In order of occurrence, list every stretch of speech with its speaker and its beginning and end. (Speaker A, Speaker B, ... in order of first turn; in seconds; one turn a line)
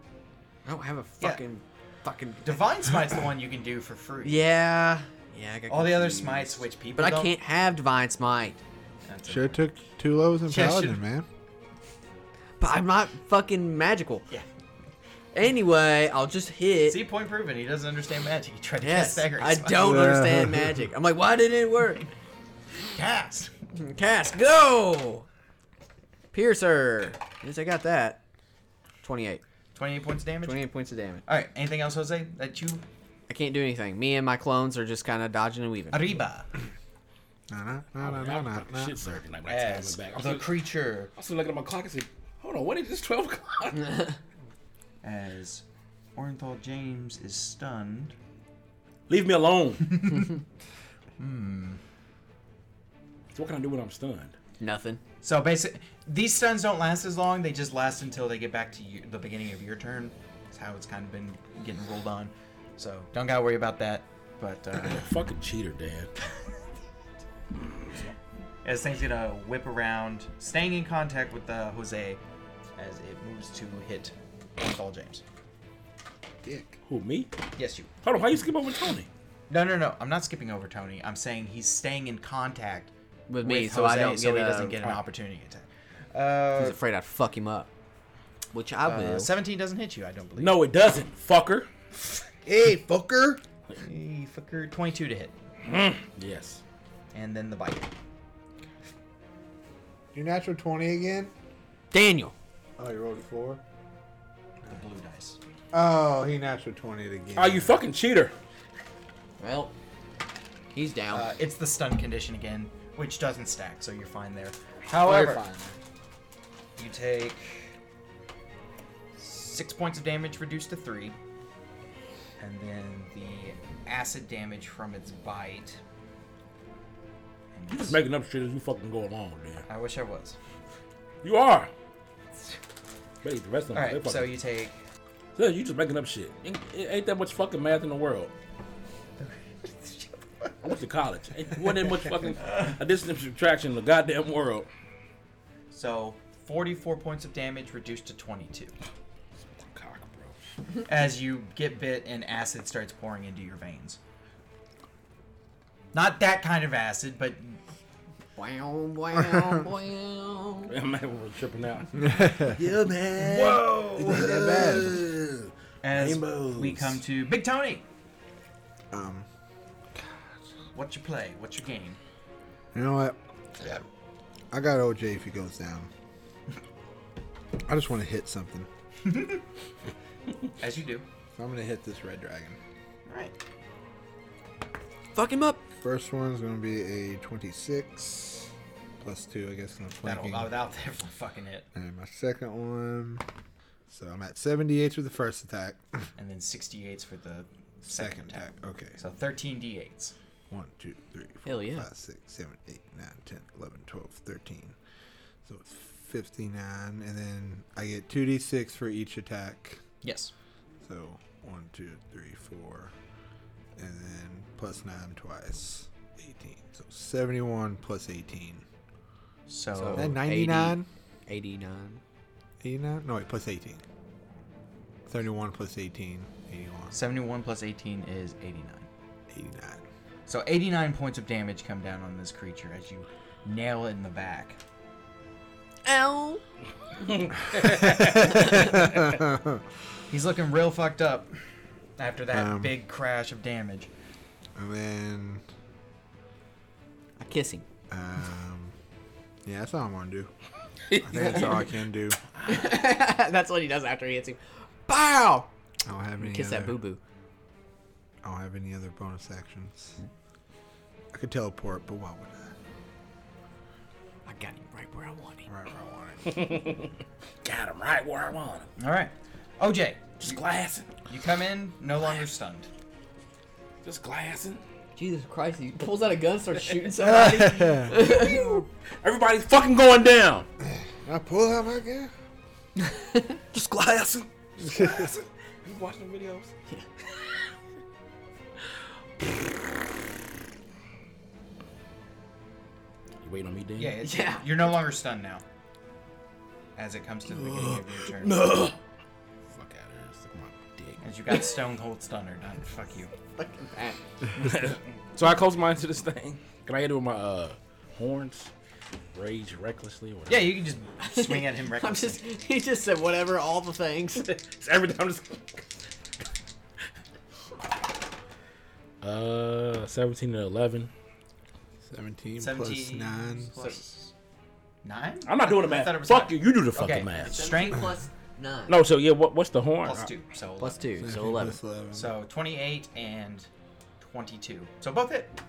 Speaker A: 0.7-2.6
Speaker B: 2.4-4.5
Speaker A: 4.2-8.6
Speaker B: 5.7-7.3
Speaker B: 9.0-9.6
Speaker C: 9.2-11.2
Speaker B: 10.5-11.0
Speaker A: 12.6-14.2
Speaker A: 15.3-17.0
Speaker B: 16.9-20.1
Speaker A: 18.8-22.1
Speaker C: 19.8-20.8
Speaker B: 22.9-23.5
Speaker A: 23.8-25.2
Speaker A: 26.3-28.2
Speaker A: 29.0-29.4
Speaker B: 29.7-30.7
Speaker A: 30.4-31.2
Speaker B: 31.2-32.8
Speaker A: 33.3-36.2
Speaker B: 35.9-36.5
Speaker C: 37.5-39.1
Speaker D: 38.0-40.5
Speaker B: 39.5-41.1
Speaker D: 41.1-44.1
Speaker B: 45.0-45.6
Speaker B: 46.1-48.1
Speaker D: 49.1-50.3
Speaker B: 49.8-50.3
Speaker B: 51.2-51.8
Speaker D: 53.3-54.3
Speaker A: 54.6-55.0
Speaker B: 55.2-65.1
Speaker D: 64.8-66.1
Speaker D: 67.6-68.1
Speaker B: 68.6-72.2
Speaker B: 72.8-75.2
Speaker C: 76.4-76.8
Speaker D: 76.8-77.3
Speaker B: 77.5-77.9
Speaker D: 78.0-79.1
Speaker B: 79.5-86.8
Speaker A: 83.3-84.8
Speaker A: 86.5-87.7
Speaker A: 88.5-89.3
Speaker B: 88.8-90.6
Speaker D: 90.4-91.7
Speaker C: 92.5-93.4
Speaker B: 93.8-95.3
Speaker D: 95.6-96.6
Speaker B: 97.1-97.9
Speaker C: 100.1-101.3
Speaker A: 101.9-102.3
Speaker C: 102.8-103.6
Speaker B: 104.7-105.4
Speaker C: 105.7-107.8
Speaker D: 107.3-108.3
Speaker A: 109.4-109.7
Speaker A: 110.7-111.3
Speaker B: 111.1-115.4
Speaker C: 114.9-115.8
Speaker B: 116.8-117.6
Speaker B: 119.2-121.2
Speaker B: 122.4-125.8
Speaker B: 127.5-128.0
Speaker D: 127.7-129.7
Speaker B: 129.7-130.4
Speaker D: 131.2-131.7
Speaker D: 133.2-134.3
Speaker B: 133.7-134.8
Speaker D: 135.3-138.3
Speaker B: 139.2-140.5
Speaker D: 140.6-144.7
Speaker B: 145.7-148.7
Speaker D: 149.5-150.3
Speaker B: 150.8-154.0
Speaker B: 155.9-157.6
Speaker A: 158.3-160.7
Speaker D: 160.7-167.0
Speaker C: 162.0-162.6
Speaker B: 163.2-164.3
Speaker C: 164.0-165.0
Speaker B: 165.8-167.8
Speaker C: 168.9-169.3
Speaker B: 170.7-172.0
Speaker C: 172.7-173.2
Speaker C: 174.5-175.9
Speaker C: 177.6-178.7
Speaker B: 179.0-179.4
Speaker B: 180.6-181.0
Speaker C: 181.3-182.6
Speaker B: 183.1-183.4
Speaker A: 185.1-185.6
Speaker C: 185.8-190.5
Speaker B: 190.0-191.7
Speaker C: 191.7-193.2
Speaker C: 193.9-196.0
Speaker B: 196.2-198.4
Speaker C: 197.8-199.0
Speaker B: 199.0-200.1
Speaker C: 200.5-204.8
Speaker A: 201.4-201.8
Speaker C: 205.4-209.8
Speaker B: 210.0-210.3
Speaker C: 210.8-212.9
Speaker C: 213.8-218.6
Speaker B: 219.5-220.2
Speaker A: 219.8-222.0
Speaker C: 219.9-220.9
Speaker C: 222.6-223.8
Speaker C: 225.1-226.9
Speaker B: 226.9-228.9
Speaker C: 229.3-229.8
Speaker B: 230.3-234.6
Speaker A: 235.8-236.4
Speaker D: 237.1-238.4
Speaker C: 237.6-239.6
Speaker A: 238.2-239.0
Speaker B: 240.1-241.3
Speaker B: 242.0-243.9
Speaker C: 242.3-242.7
Speaker C: 244.6-245.4
Speaker A: 247.2-247.6
Speaker C: 247.9-248.7
Speaker C: 249.4-250.3
Speaker D: 250.9-251.7
Speaker C: 250.9-252.2
Speaker A: 251.2-251.4
Speaker A: 252.4-255.5
Speaker C: 255.8-256.8
Speaker A: 256.2-257.0
Speaker C: 258.2-260.0
Speaker C: 261.1-262.5
Speaker A: 264.2-265.4
Speaker C: 265.5-266.4
Speaker D: 266.2-266.9
Speaker D: 267.4-268.7
Speaker B: 268.8-270.4
Speaker D: 270.2-270.9
Speaker B: 271.1-272.7
Speaker D: 273.8-274.6
Speaker A: 274.9-278.6
Speaker C: 277.0-278.0
Speaker D: 277.9-280.5
Speaker C: 280.6-282.1
Speaker A: 282.8-283.3
Speaker D: 283.5-286.5
Speaker C: 284.6-285.1
Speaker D: 293.2-294.0
Speaker B: 293.8-295.4
Speaker A: 294.0-294.5
Speaker B: 296.8-298.4
Speaker D: 297.3-298.8
Speaker D: 299.5-301.0
Speaker B: 301.0-303.1
Speaker A: 303.3-304.0
Speaker D: 304.3-308.5
Speaker D: 309.1-310.6
Speaker B: 310.3-312.2
Speaker A: 311.0-314.2
Speaker D: 314.2-315.6
Speaker D: 319.0-320.9
Speaker C: 321.9-323.8
Speaker B: 322.4-324.1
Speaker B: 324.8-327.9
Speaker D: 325.2-327.5
Speaker A: 327.2-328.8
Speaker D: 328.7-330.1
Speaker B: 329.8-330.8
Speaker A: 330.6-331.6
Speaker C: 331.0-332.1
Speaker B: 331.9-333.5
Speaker B: 334.0-335.3